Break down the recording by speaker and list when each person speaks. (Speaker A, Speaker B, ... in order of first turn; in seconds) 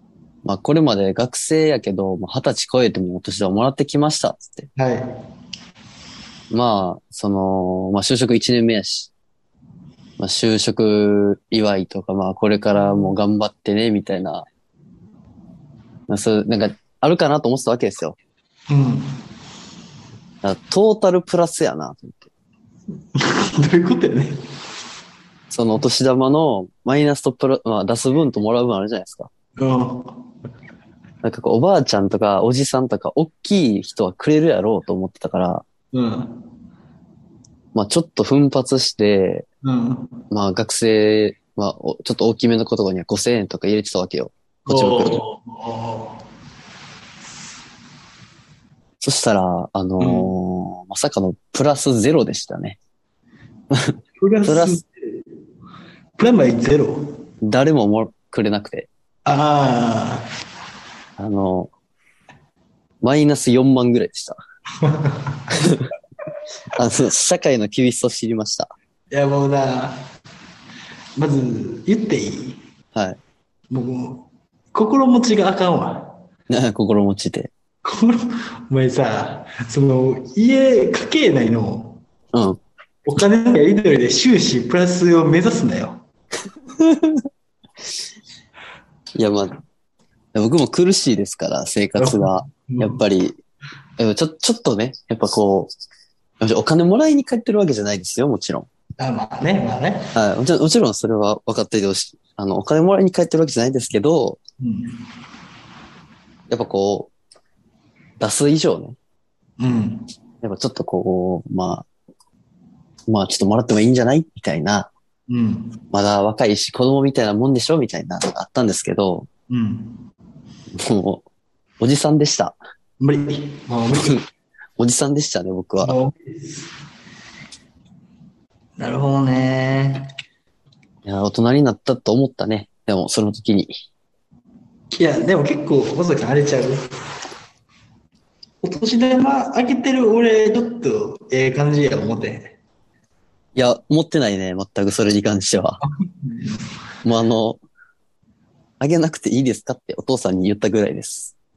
Speaker A: 0.4-4.7, 6.5-9.1, 10.2-14.4, 16.1-18.2, 20.4-22.2, 25.5-29.3, 31.2-35.6, 37.7-39.5, 40.3-45.2, 49.0-52.8, 54.5-54.8, 57.4-58.9, 61.2-61.7, 63.0-64.4, 66.7-68.7, 76.5-77.5, 82.3-82.6, 86.8-87.2, 89.2-89.5, 90.3-93.4, 94.0-95.7, 96.4-98.7, 100.1-104.4, 106.5-107.1, 108.2-109.0, 110.4-111.9, 113.1-114.9, 115.9-119.3, 120.8-121.2, 121.8-122.6, 123.9-124.2, 124.8-125.9, 131.0-133.7, 143.6-145.8, 147.0-147.6, 148.8-151.3
Speaker B: 4.8-5.1, 12.8-13.1, 18.7-19.1, 23.1-24.4, 29.6-30.2, 35.9-36.4, 39.6-40.2, 44.7-46.2, 50.0-50.3, 54.2-54.9, 56.2-57.1, 59.2-60.2, 64.8-65.7, 69.1-70.0, 71.2-72.6, 73.7-76.2, 77.8-82.0, 83.0-86.0, 92.0-93.0, 99.0-100.1, 104.6-105.0, 109.6-110.1, 115.3-115.8, 119.5-120.0, 123.0-124.2, 125.8-126.7, 128.8-130.1, 134.9-136.9, 138.6-142.6, 145.8-146.6